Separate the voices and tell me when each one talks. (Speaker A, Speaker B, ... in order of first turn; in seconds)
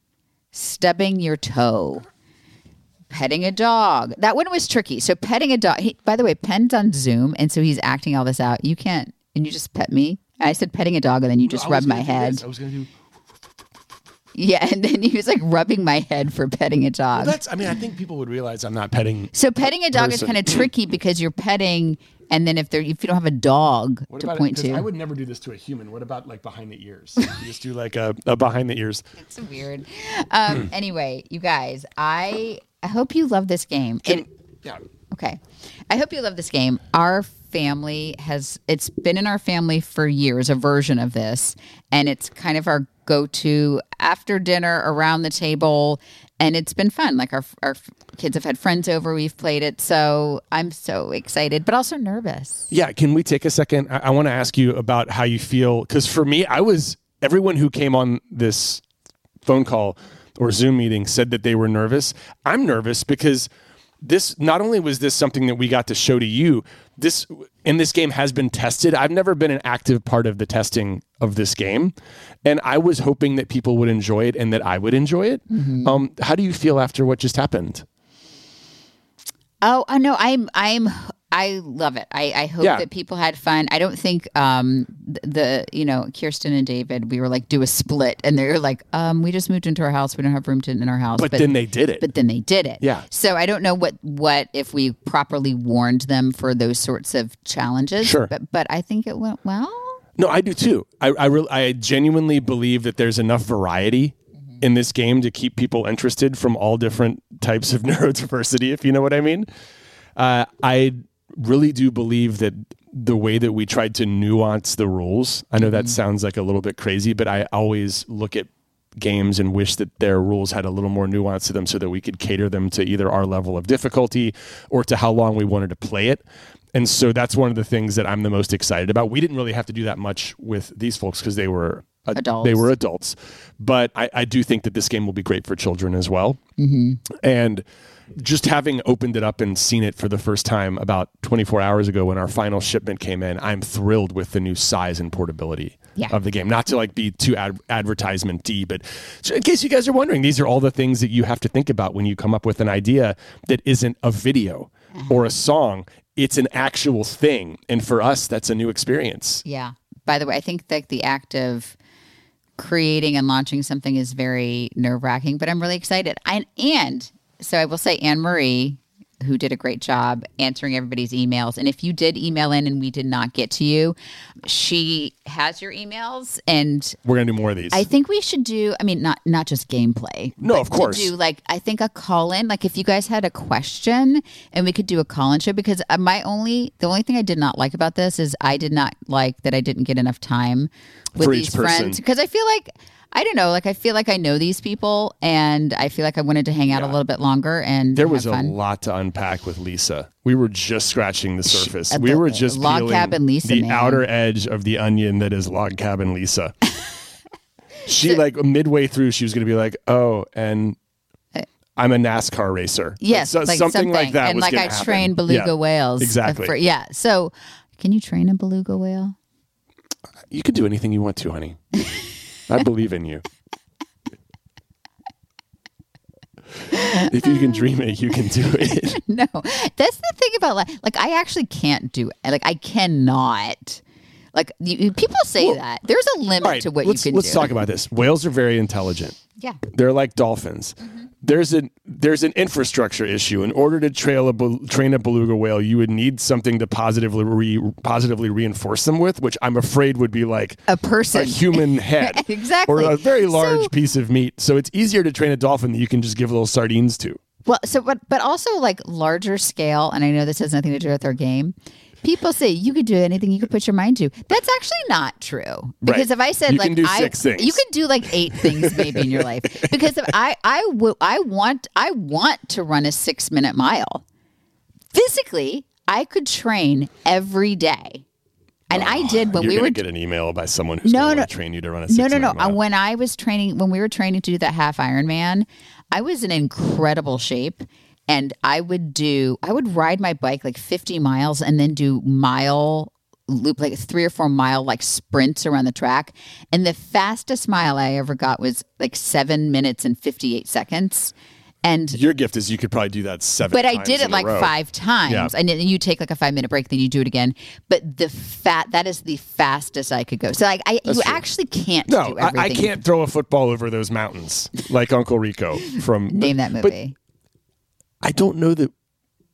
Speaker A: 0.5-2.0, 3.1-12.4, 14.3-17.4, 19.3-24.9, 29.2-34.2, 35.1-52.7, 75.5-76.0, 79.6-100.0, 115.6-116.0, 132.1-132.7, 136.6-137.0, 159.4-161.8, 162.6-177.0, 177.7-198.6, 201.5-204.0, 213.0-219.2, 228.9-233.8, 234.3-237.5, 240.8-241.1, 250.7-253.7, 257.4-274.0, 274.9-278.0, 278.7-279.8, 280.8-281.3, 281.9-301.1, 301.6-302.0, 303.5-312.8, 316.1-316.9
Speaker B: 11.4-12.9, 17.1-19.3, 19.9-20.7, 24.1-29.1, 34.0-34.8, 52.7-58.8, 59.4-63.5, 64.0-77.8, 82.6-82.8, 91.2-92.0, 92.8-93.0, 98.0-98.3, 100.2-109.5, 110.2-126.2, 126.7-136.4, 137.2-137.6, 138.2-159.4, 177.0-177.9, 180.4-181.1, 191.2-192.0, 196.7-197.0, 197.9-206.6, 207.8-210.8, 211.8-216.5, 220.3-221.6, 222.5-223.2, 226.7-229.0, 236.4-239.2, 239.7-257.2, 265.8-267.6, 268.3-269.9, 278.7-282.6, 301.9-304.5, 305.1-305.3, 310.9-311.2, 311.9-316.8, 318.0-318.7